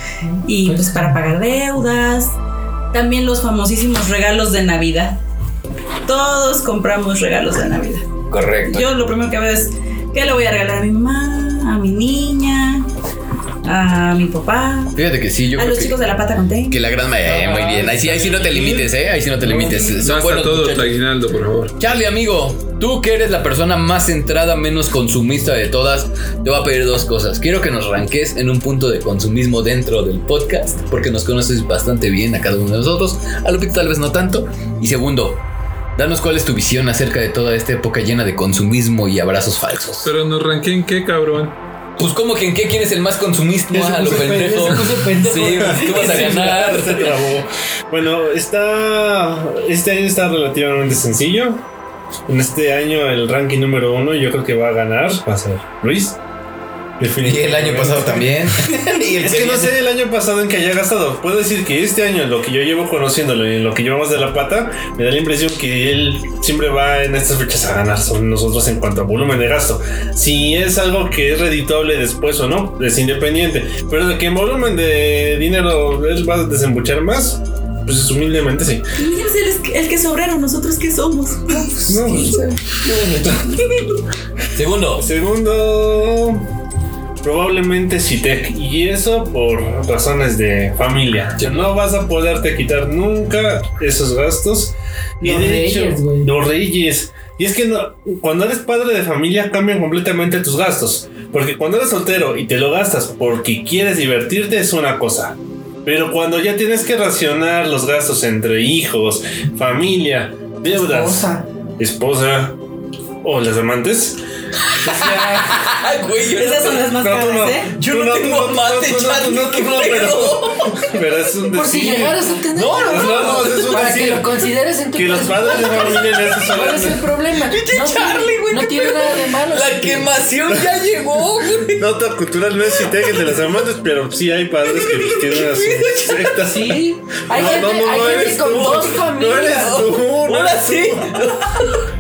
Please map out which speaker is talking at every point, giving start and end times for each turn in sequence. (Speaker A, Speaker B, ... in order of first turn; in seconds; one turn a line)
Speaker A: 0.2-1.2
Speaker B: 0.5-2.4
Speaker B: 2.9-5.2
Speaker B: 6.1-8.1
Speaker C: 8.3-8.9
Speaker B: 8.7-12.9
Speaker B: 13.6-15.0
Speaker C: 14.9-16.0
Speaker B: 15.6-16.9
Speaker C: 16.7-21.0
Speaker A: 17.2-20.1
Speaker D: 19.9-21.8
Speaker C: 21.8-35.4
Speaker C: 36.0-40.1
Speaker D: 40.0-41.6
Speaker C: 42.0-47.2
Speaker A: 43.7-46.9
Speaker E: 45.5-51.6
Speaker E: 52.3-56.2
Speaker E: 57.0-58.3
Speaker C: 57.2-59.8
Speaker E: 59.2-78.8
Speaker B: 79.0-81.9
Speaker E: 81.9-82.4
Speaker C: 81.9-83.6
Speaker B: 83.5-83.8
Speaker C: 84.5-85.1
Speaker E: 85.0-86.5
Speaker E: 87.2-112.6
Speaker C: 91.4-91.8
Speaker A: 95.2-96.3
Speaker A: 110.7-111.5
Speaker E: 113.2-114.2
Speaker C: 114.6-117.0
Speaker E: 114.8-115.6
Speaker B: 116.3-117.7
Speaker E: 116.9-122.3
Speaker C: 117.8-120.9
Speaker A: 121.5-130.1
Speaker C: 122.5-123.9
Speaker E: 122.9-124.3
Speaker E: 125.0-127.0
Speaker B: 127.5-129.2
Speaker C: 127.7-131.8
Speaker E: 131.8-141.2
Speaker B: 134.9-135.6
Speaker C: 135.4-136.2
Speaker A: 136.4-140.0
Speaker C: 137.4-141.8